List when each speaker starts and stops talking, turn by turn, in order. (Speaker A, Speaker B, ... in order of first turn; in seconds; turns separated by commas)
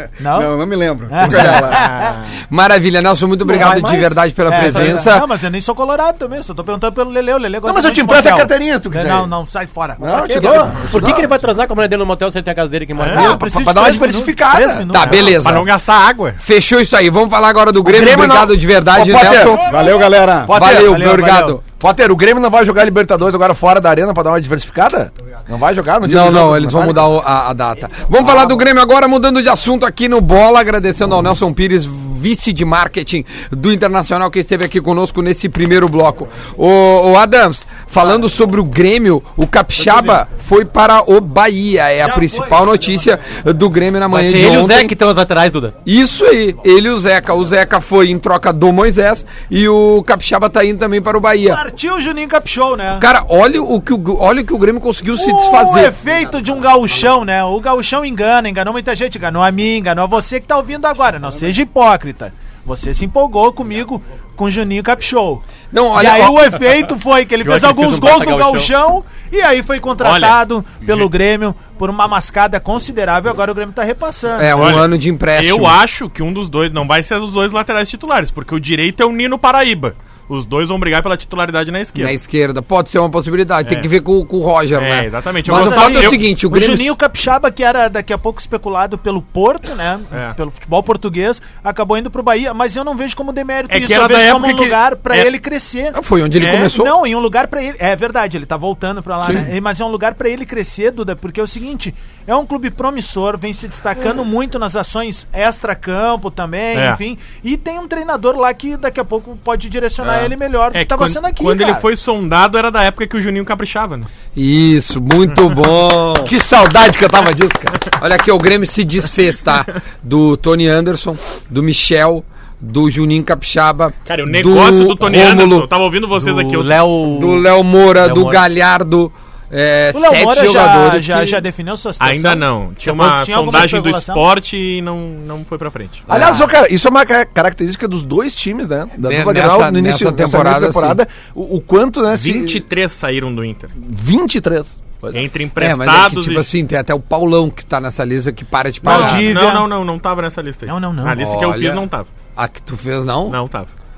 Speaker A: 0.2-0.5, Speaker B: 0.2-2.1, Speaker A: 1.1-2.2, Speaker C: 1.3-1.6, Speaker C: 2.5-5.3, Speaker D: 3.4-5.0, Speaker A: 4.5-10.7, Speaker E: 7.6-9.3, Speaker E: 10.0-11.3, Speaker D: 10.1-13.4, Speaker F: 13.0-13.3, Speaker E: 13.1-14.9, Speaker A: 13.1-15.6, Speaker C: 14.9-15.7, Speaker F: 14.9-16.4, Speaker C: 16.4-19.6, Speaker E: 17.8-19.6, Speaker B: 19.5-20.7, Speaker E: 20.4-27.1, Speaker C: 20.5-21.6, Speaker A: 20.7-21.6, Speaker C: 26.0-44.9, Speaker E: 28.2-28.6, Speaker A: 42.0-43.1, Speaker D: 44.1-45.7, Speaker C: 45.8-51.6, Speaker A: 51.4-53.0, Speaker C: 53.0-55.9, Speaker A: 55.1-74.8, Speaker C: 65.7-66.7, Speaker D: 67.4-68.7, Speaker F: 70.0-71.1, Speaker C: 74.3-75.8, Speaker F: 74.5-82.1, Speaker C: 81.9-86.9, Speaker F: 83.6-83.9, Speaker F: 84.7-86.2, Speaker A: 85.5-111.8, Speaker F: 90.1-90.4, Speaker F: 93.7-95.3, Speaker C: 95.9-97.0, Speaker F: 96.4-96.7, Speaker C: 99.2-99.5, Speaker F: 106.7-107.0, Speaker F: 110.7-114.1, Speaker C: 114.3-116.3, Speaker E: 116.2-117.8, Speaker C: 118.0-125.7, Speaker F: 124.1-126.8, Speaker D: 126.2-127.5, Speaker C: 127.1-131.4, Speaker D: 128.0-128.4, Speaker A: 129.9-134.3, Speaker F: 132.0-136.1, Speaker E: 136.1-142.6, Speaker D: 136.1-136.5, Speaker C: 139.0-141.0, Speaker F: 142.1-143.7, Speaker E: 143.8-145.2, Speaker F: 145.1-146.5, Speaker C: 145.6-149.4, Speaker A: 148.8-149.7, Speaker F: 148.8-152.1, Speaker A: 150.7-151.2, Speaker C: 151.2-153.4, Speaker F: 153.3-153.7